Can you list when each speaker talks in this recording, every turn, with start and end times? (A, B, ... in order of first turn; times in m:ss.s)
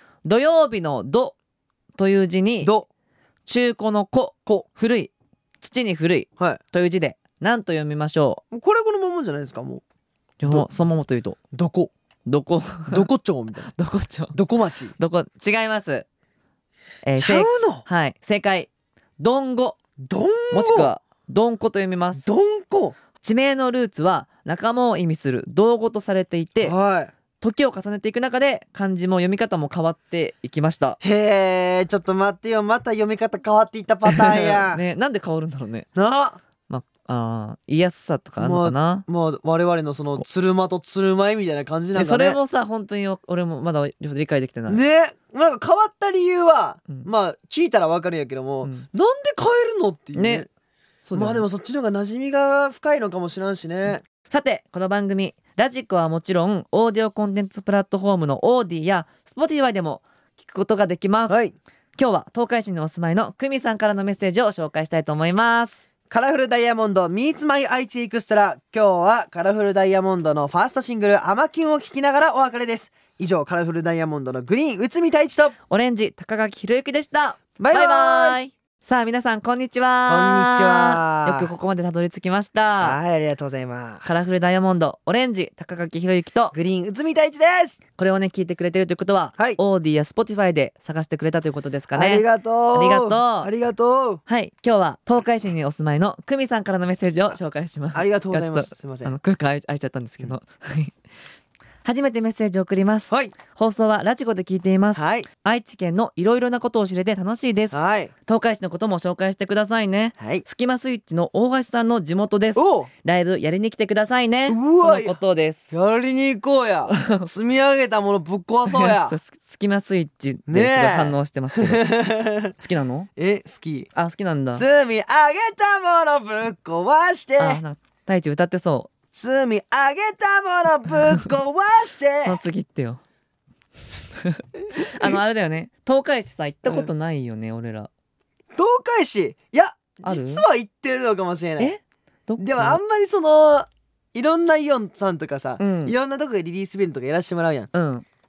0:00.2-0:01.4 A
0:02.0-0:02.7 A
0:02.6-0:02.9 B
0:03.5-0:08.4 A
0:08.5-0:09.8 B
0:10.4-0:11.4 A
0:11.5-0:11.9 B
0:12.3-0:13.1 A
0:12.9-0:13.7 B
0:13.7-0:14.4 A
0:14.3-0:15.0 B
0:15.0-0:16.1 A
0:17.0-0:19.8 A
0:17.2-0:17.8 B
0:20.0-0:20.9 B
0:20.5-0:22.3 A
0:22.2-0:23.0 B
0:23.2-0:26.8 A
0:26.6-0:27.1 B
0:27.4-0:31.0 A
0:31.0-0:34.8 B
0:34.1-0:35.9 A
0:36.0-0:36.4 B
0:36.7-0:39.1 A
0:38.4-0:42.4 B
0:42.0-0:44.8 A
0:44.7-0:50.5 B
0:50.2-0:50.5 A
0:51.1-0:51.4 A
0:51.1-0:54.0 B
0:54.3-1:01.4 A
1:01.3-1:01.5 B
1:02.0-1:05.8 A
1:06.1-1:15.5 B
1:15.7-1:23.0 A
1:17.6-1:18.4 B
1:20.1-1:21.5 B
1:22.8-1:24.2 B
1:24.0-1:26.5 A
1:26.5-1:27.8 B
1:28.0-1:33.5 A
1:31.9-1:34.2 B
1:34.3-1:41.0 A
1:37.9-1:39.1 B
1:41.8-1:55.7 A
1:45.0-1:45.3 B
1:47.7-1:48.1 B
1:50.2-1:50.4 B
1:52.6-1:52.9 B
1:54.5-1:55.2 B
1:55.7-1:59.2 B
1:56.9-1:57.3 A
1:58.7-2:01.9 A
2:00.5-2:02.6 B
2:02.6-2:03.1 A
2:03.2-2:03.9 B
2:04.0-2:04.6 A
2:04.5-2:07.6 B
2:07.4-2:08.9 A
2:09.1-2:12.4 B
2:12.2-2:13.0 A
2:14.2-2:17.9 A
2:14.9-2:15.2 B
2:18.5-2:21.7 B
2:20.0-2:20.4 A
2:21.6-2:22.8 A
2:22.4-2:27.7 B
2:25.6-2:26.0 A
2:27.7-2:28.1 A